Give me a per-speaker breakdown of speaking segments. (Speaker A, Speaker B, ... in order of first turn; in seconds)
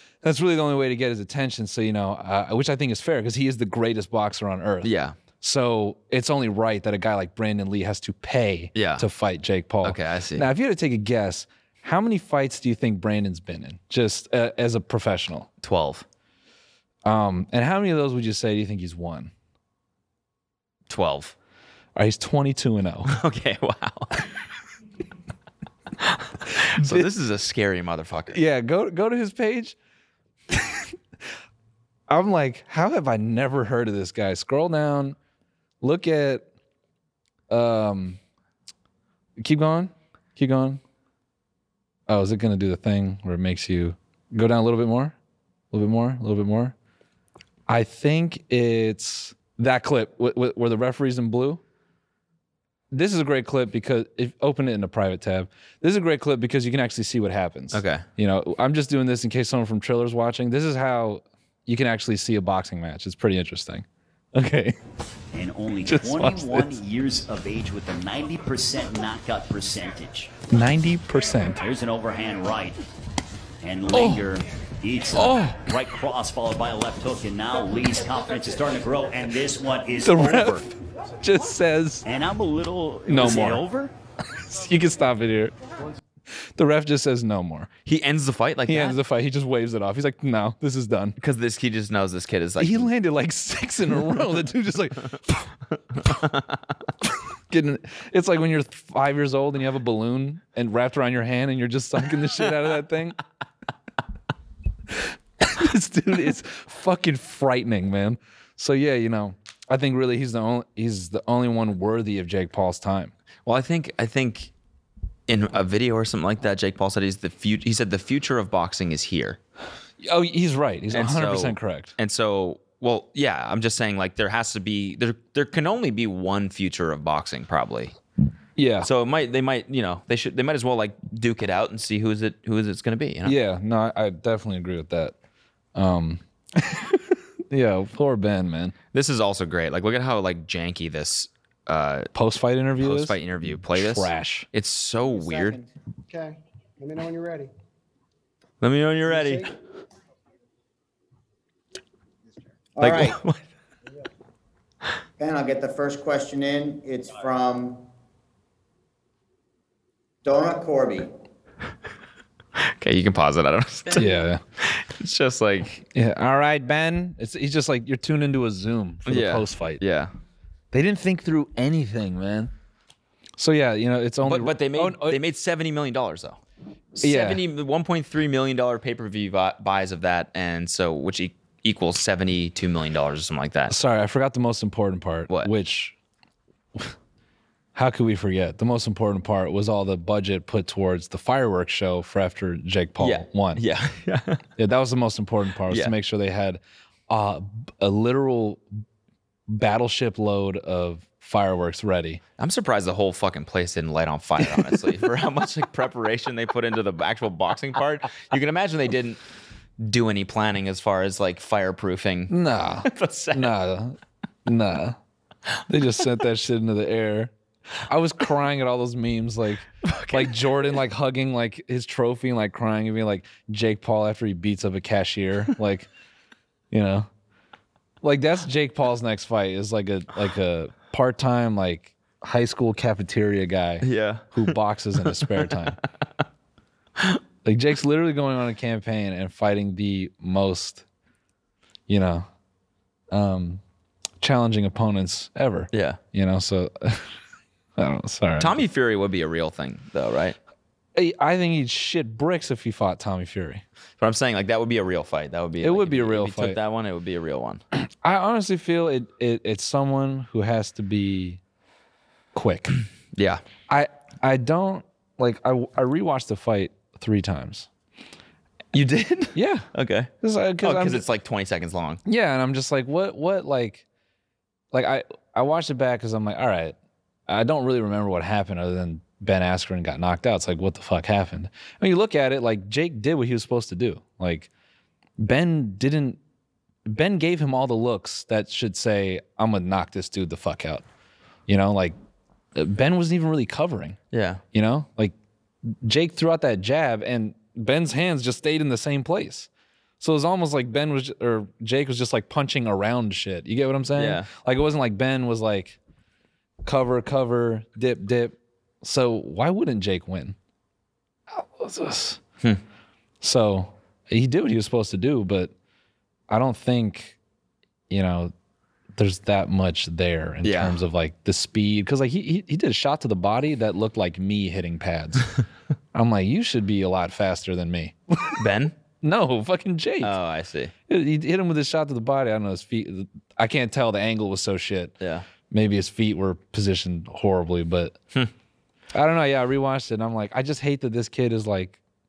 Speaker A: 0.2-15.5, 17.0-19.3, 21.9-23.1, 26.8-27.1, 28.3-29.8, 30.5-30.9, 32.1-35.1, 35.8-36.5, 37.5-38.2, 39.4-40.8, 42.1-45.1, 45.7-46.7, 47.7-51.6, 52.9-64.8, 65.8-66.8, 70.5-71.6, 73.9-74.3, 75.1-75.6, 80.0-82.0, 83.1-83.6, 84.5-85.5, 86.5-87.7, 88.7-91.2, 92.6-95.5, 97.5-103.2, 104.9-113.1, 120.0-121.9, 128.6-128.9, 133.2-135.1, 135.8-138.7, 142.1-144.5, 163.9-164.4, 165.9-169.8, 170.7-172.5, 173.4-175.2, 177.0-177.4, 183.7-185.9, 187.7-193.6, 194.6-198.6, 199.5-202.2, 212.3-215.0, 215.7-217.3, 217.8-225.9, 226.7-227.1, 228.0-235.8, 237.4-240.8, 241.9-242.2, 243.1-243.6, 244.2-247.1, 247.8-248.6, 250.9-253.6, 255.6-256.6, 257.7-261.4, 262.3-262.8, 263.7-267.7, 269.3-269.7, 270.2-271.1, 272.0-273.8, 274.7-276.8, 277.3-284.5, 285.2-286.2, 286.9-290.8, 291.5-291.9, 292.5-294.0, 294.5-295.1, 295.7-299.5, 300.0-305.8, 306.6-310.4, 311.3-312.2, 313.2-315.5, 316.3-317.2, 317.9-318.3, 318.9-325.3, 325.9-328.4, 329.0-330.1, 330.9-334.9, 335.5-338.0, 338.9-341.8
Speaker B: 4.8-5.2, 8.7-9.1, 9.8-10.5, 15.6-16.1, 20.9-21.3, 23.1-24.2, 26.0-28.4, 57.7-58.0, 87.8-89.0, 91.2-92.9, 96.0-96.5, 113.4-114.5, 115.3-119.4, 120.9-127.9, 128.8-133.4, 138.9-142.1, 142.8-145.6, 148.6-149.5, 152.8-153.4, 162.6-165.8, 169.1-170.1, 174.2-176.4, 176.9-183.7, 193.0-194.4, 195.7-195.9, 202.4-209.2, 209.8-213.6, 219.8-220.7, 233.8-235.8, 245.7-246.0, 248.4-250.4, 254.0-257.6, 263.1-263.4, 268.7-270.1, 270.6-272.0, 294.1-294.4, 303.9-304.3, 320.4-320.8, 328.4-328.7, 330.0-330.7, 335.0-335.3
Speaker C: 65.3-70.3, 71.6-72.8, 73.6-80.6, 82.0-83.9
Speaker D: 145.3-145.7, 152.8-153.1, 155.2-157.8, 160.2-161.1
Speaker E: 146.1-147.5, 149.1-149.5